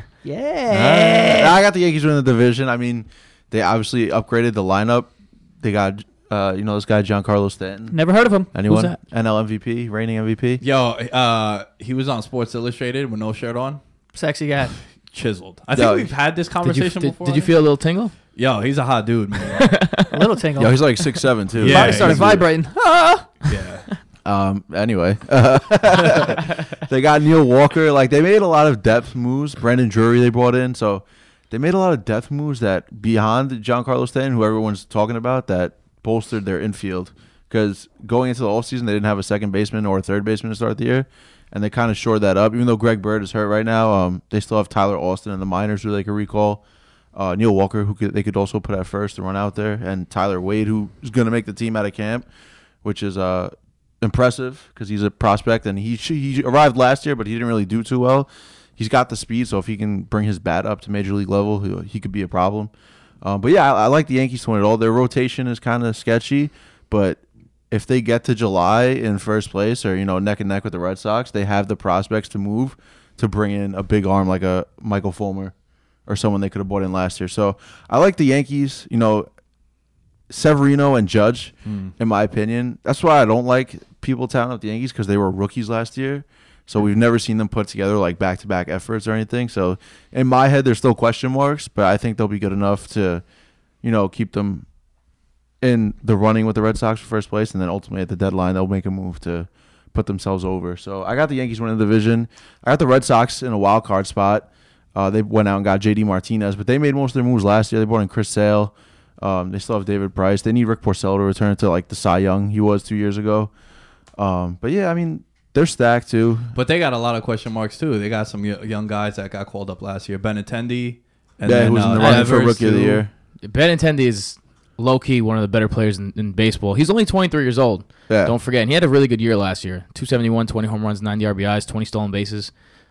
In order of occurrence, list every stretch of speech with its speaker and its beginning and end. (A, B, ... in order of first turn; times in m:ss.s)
0:00.2-0:01.6 A
0:00.7-0:10.6 B
0:07.9-0:08.5 A
0:08.7-0:09.0 C
0:10.6-0:13.8 D
0:14.1-0:14.8 A
0:14.9-0:19.7 D
0:15.7-0:16.2 B
0:16.6-0:18.1 C
0:19.5-0:20.0 C
0:20.1-0:23.9 A
0:20.6-0:22.5 B
0:21.6-0:22.4 D
0:23.4-0:23.9 D
0:24.2-0:46.6 B
0:47.1-0:52.2 B
0:52.8-1:19.3 B
1:20.3-1:33.2 B
1:21.6-1:21.9 D
1:33.8-1:34.7 B
1:35.6-1:53.6 B
1:54.1-1:56.5 B
1:56.5-2:03.0 D
2:01.4-2:03.1 B
2:02.0-2:02.4 C
2:03.4-2:12.5 C
2:08.1-2:08.3 B